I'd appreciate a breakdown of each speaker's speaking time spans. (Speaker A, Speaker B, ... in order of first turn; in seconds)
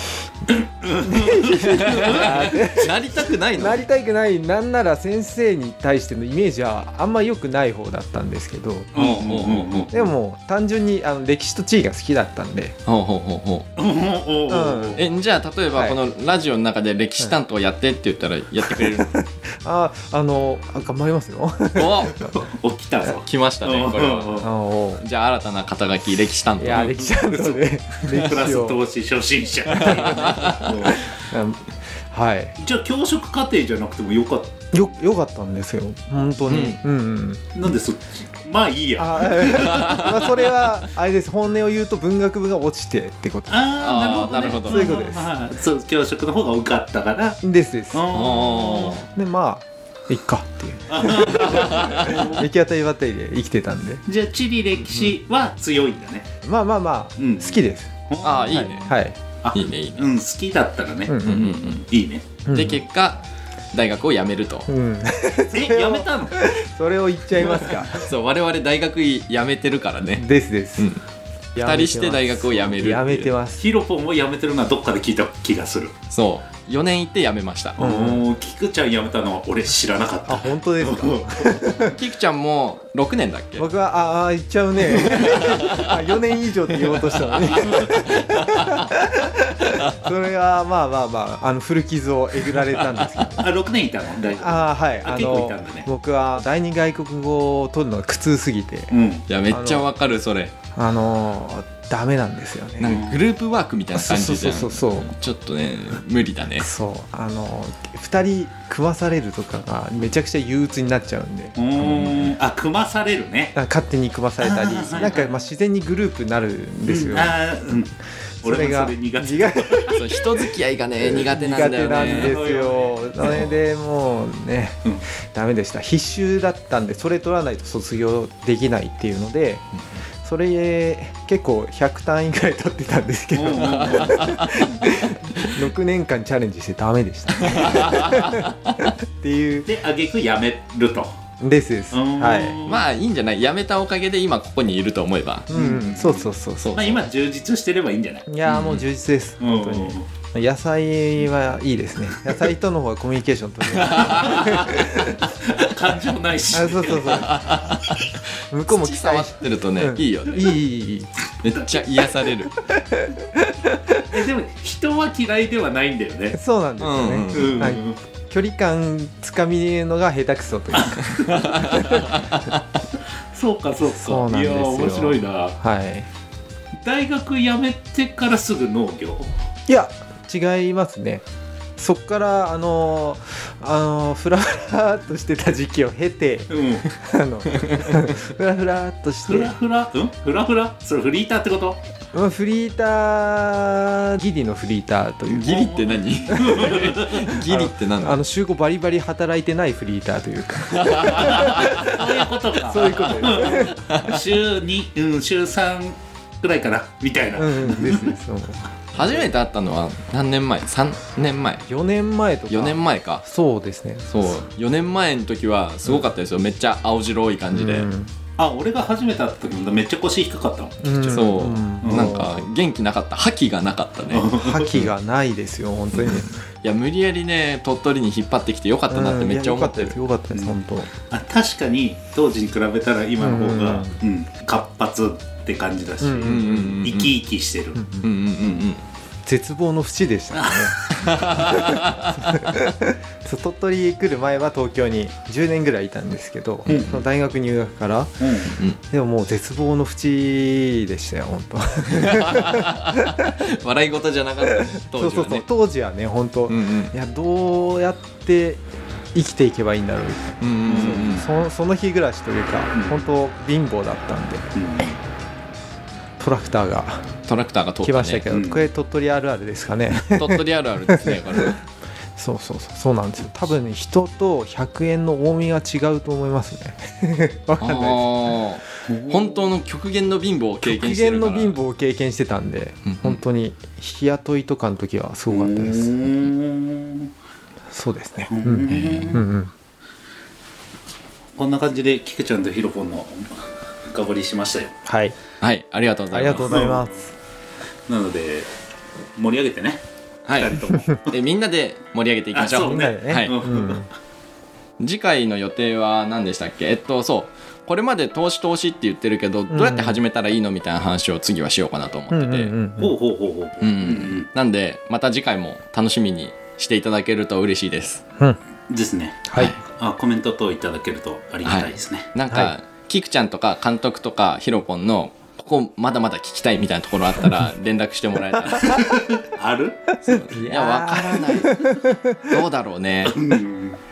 Speaker A: 0.5-2.6, 8.9-10.1, 13.8-15.0, 22.3-24.5, 26.7-31.0, 32.6-34.9, 37.5-40.3, 43.5-47.4, 47.9-48.9, 50.9-52.5, 54.0-56.3, 57.2-58.7, 59.4-62.4, 65.5-66.5, 67.4-67.8, 73.6-75.9, 77.8-81.7, 93.4-95.9, 98.9-99.2, 102.8-103.2, 111.6-113.5, 114.4-115.3, 116.8-117.9, 118.4-120.0, 121.0-123.6, 133.3-134.7, 139.7-141.1, 141.9-142.8, 145.5-148.2, 149.4-150.0, 154.4-157.5, 164.1-166.4, 167.3-168.0, 173.3-175.6, 176.8-179.3, 186.5-186.8, 189.2-191.8, 195.4-197.2, 201.2-208.2, 218.4-220.9, 221.8-222.2, 224.1-224.7, 230.3-237.8, 240.3-241.1, 246.7-247.0, 248.2-248.6, 260.6-261.2, 262.7-263.1, 264.5-265.0, 268.3-268.6, 285.3-287.1, 288.3-289.3, 291.4-294.7, 296.4-296.9, 297.9-298.5, 299.1-299.8, 300.3-301.1, 302.3-303.9, 312.8-314.3, 318.7-322.1, 328.6-329.8, 333.1-333.8
Speaker B: 1.0-8.9, 9.9-12.8, 14.5-15.0, 18.7-22.3, 24.4-25.0, 26.6-28.8, 29.7-32.5, 34.7-37.5, 39.0-43.7, 44.6-45.3, 47.4-48.4, 49.0-54.0, 56.4-57.9, 58.5-59.1, 61.1-61.7, 62.5-62.8, 64.7-68.1, 70.2-70.9, 71.5-73.7, 77.8-78.2, 80.2-82.0, 83.6-93.5, 94.4-98.9, 99.5-99.9, 100.7-103.0, 103.9-105.1, 106.6-111.6, 113.5-117.4, 118.4-120.0, 121.1-129.6, 130.2-139.7, 141.4-142.6, 145.5-146.9, 148.3-155.3, 156.5-157.7, 158.5-161.1, 162.7-164.0, 166.3-172.2, 173.9-176.1, 179.7-181.2, 181.8-189.5, 192.1-203.8, 207.3-209.2, 211.7-214.4, 217.5-218.1, 220.8-222.4, 224.3-226.4, 228.9-230.9, 233.2-234.0, 236.0-236.8, 237.8-238.1, 239.2-248.3, 248.8-253.4, 254.7-258.6, 259.1-264.5, 266.2-267.1, 267.8-271.6, 272.2-278.4, 280.6-286.1, 287.7-289.5, 294.9-295.1, 296.1-297.1, 302.5-303.9, 309.5-310.0, 312.1-312.9, 319.3-319.5, 328.5-328.8, 330.1-332.4
Speaker C: 1.6-3.8, 8.9-9.9, 12.8-13.7, 15.0-19.2, 21.7-22.2, 23.1-27.0, 29.7-30.8, 36.5-36.8, 39.4-40.3, 43.8-44.8, 48.1-49.1, 51.2-52.3, 58.2-58.9, 59.5-60.1, 61.2-61.8, 62.5-63.2, 63.7-64.7, 67.7-70.2, 71.6-73.3, 76.1-77.8, 81.8-83.7, 85.0-85.9, 86.9-88.9, 89.7-90.0, 92.7-93.3, 99.3-100.5, 102.8-106.7, 111.8-112.3, 119.9-122.4, 133.6-135.6, 137.4-138.9, 142.6-145.5, 146.6-146.9, 148.5-148.8, 153.7-154.9, 157.1-160.5, 161.4-162.5, 166.8-167.7, 171.1-172.6, 187.5-187.9, 195.3-198.2, 200.7-201.9, 203.7-204.2, 208.9-211.7, 212.5-213.2, 214.1-217.9, 221.0-224.9, 226.1-230.0, 236.2-237.2, 238.0-238.8, 240.9-242.5, 246.7-246.9, 251.9-255.4, 256.5-256.9, 260.4-261.3, 267.3-268.2, 270.1-271.6, 277.6-281.6, 282.9-283.2, 288.7-289.2, 295.4-296.6, 300.2-303.4, 304.8-312.5, 313.6-318.0, 321.4-328.8, 330.0-331.8, 332.3-333.2